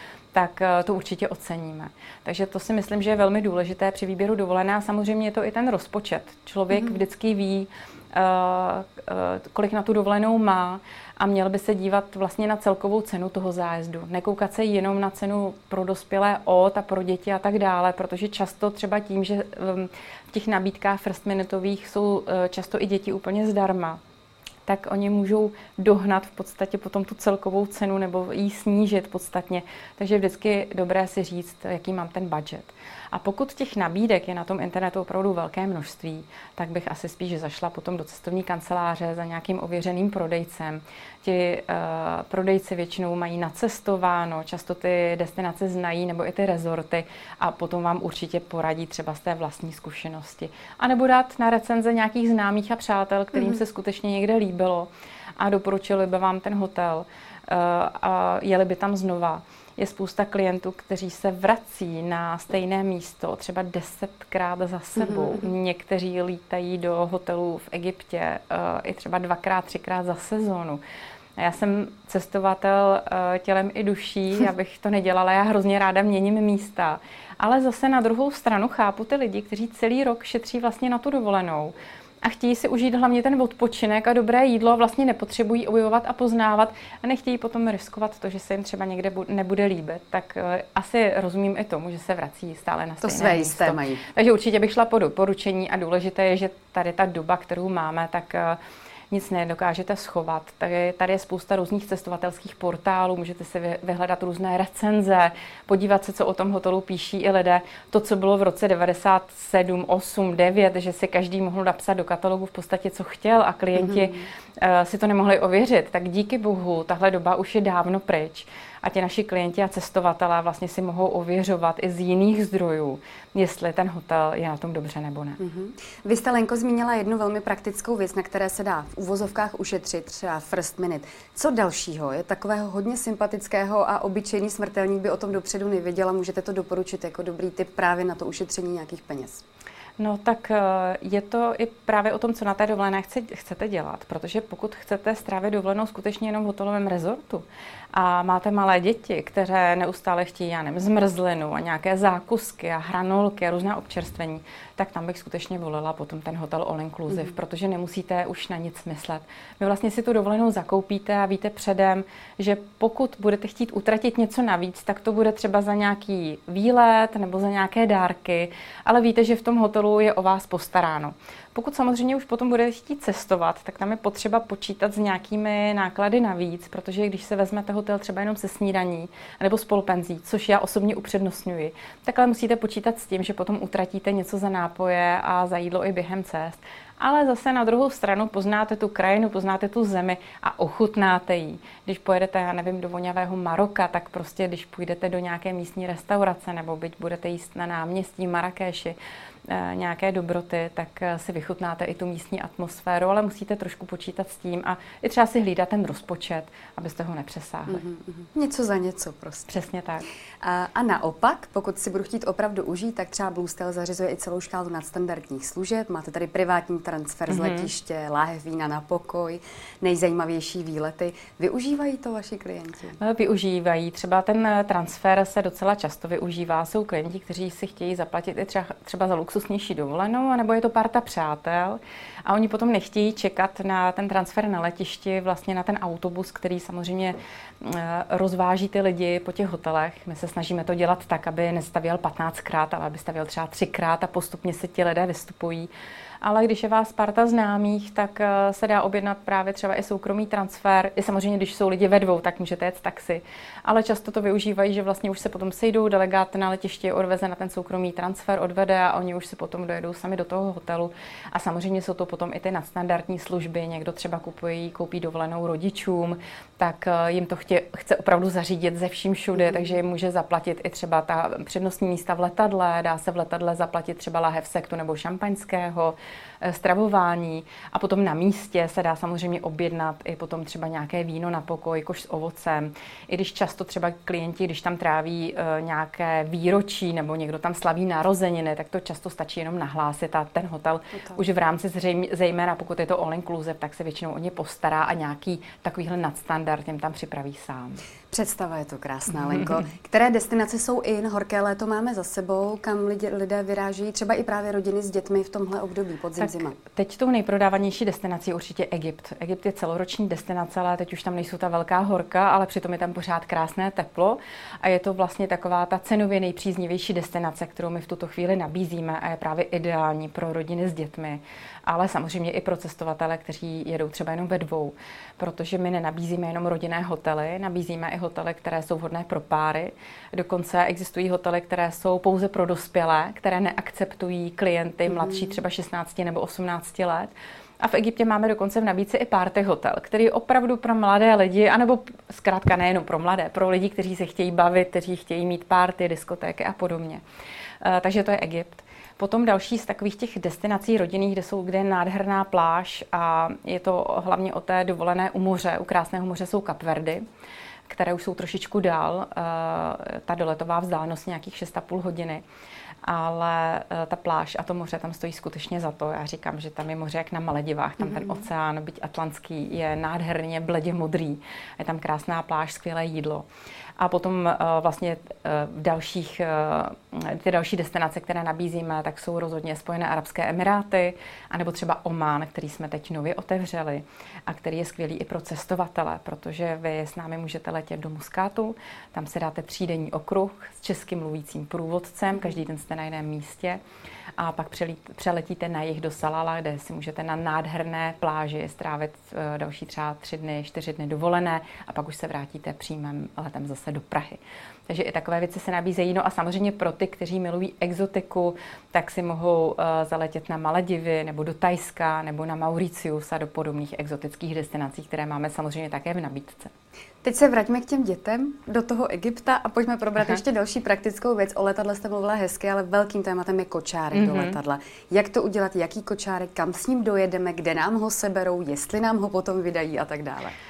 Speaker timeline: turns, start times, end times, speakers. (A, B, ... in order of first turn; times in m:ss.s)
0:00.3-0:24.0 A
0:06.7-0:07.0 B
0:24.6-1:10.8 A
1:05.0-1:05.5 B
1:11.4-1:38.6 A
1:33.0-1:34.0 B
1:39.1-2:05.4 A
1:53.8-1:54.2 B
2:05.4-2:19.4 B
2:20.0-3:19.0 A
3:19.5-3:27.8 A
3:27.7-3:29.5 B
3:29.5-3:30.1 A
3:30.4-3:43.0 B
3:37.3-3:37.7 A
3:43.0-4:05.7 A
4:06.2-4:57.8 A
4:29.4-4:29.7 B
4:58.1-5:06.6 B
5:06.2-5:47.0 A
5:34.9-5:35.4 B
5:47.6-5:57.0 A
5:57.7-6:02.2 A
6:02.8-6:13.2 A
6:07.8-6:08.2 B
6:13.8-6:33.6 A
6:32.1-6:32.4 B
6:34.2-6:56.5 A
6:57.0-7:10.3 B
7:03.9-7:04.4 A